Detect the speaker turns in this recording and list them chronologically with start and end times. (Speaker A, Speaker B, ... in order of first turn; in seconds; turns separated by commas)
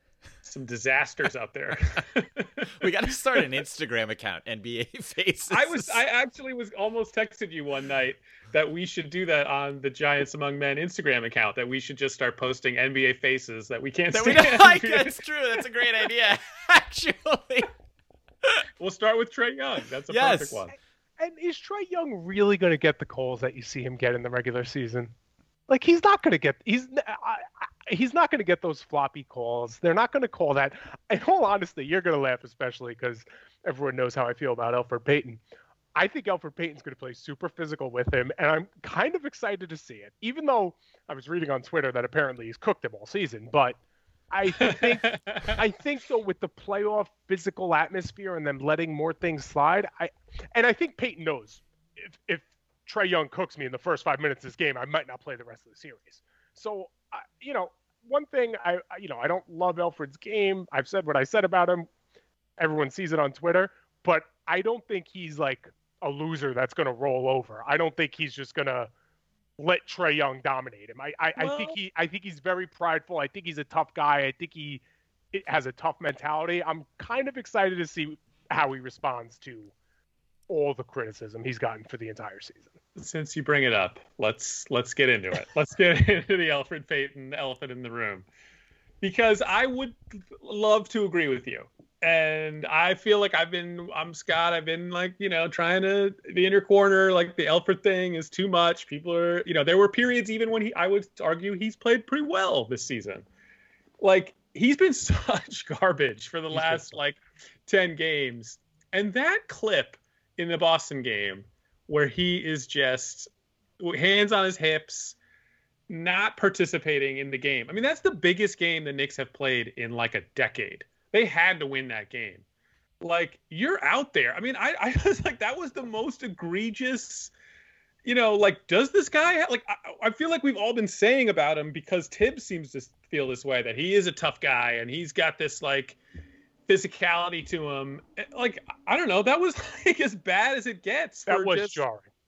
Speaker A: 0.4-3.4, Speaker B: 2.8-6.0, Speaker A: 5.5-15.2, Speaker B: 14.1-17.7, Speaker A: 18.8-20.7, Speaker B: 20.1-20.7, Speaker C: 21.2-25.1, Speaker C: 25.7-35.4, Speaker C: 36.0-43.8, Speaker C: 44.3-61.9, Speaker A: 44.6-45.6, Speaker C: 62.6-68.9, Speaker C: 69.6-79.7, Speaker A: 71.4-71.8, Speaker C: 80.5-82.7, Speaker A: 83.0-88.3, Speaker A: 89.0-103.3, Speaker A: 104.0-115.2, Speaker A: 115.9-122.5, Speaker A: 123.0-127.3, Speaker A: 128.0-136.0, Speaker A: 136.7-141.8, Speaker C: 141.3-142.1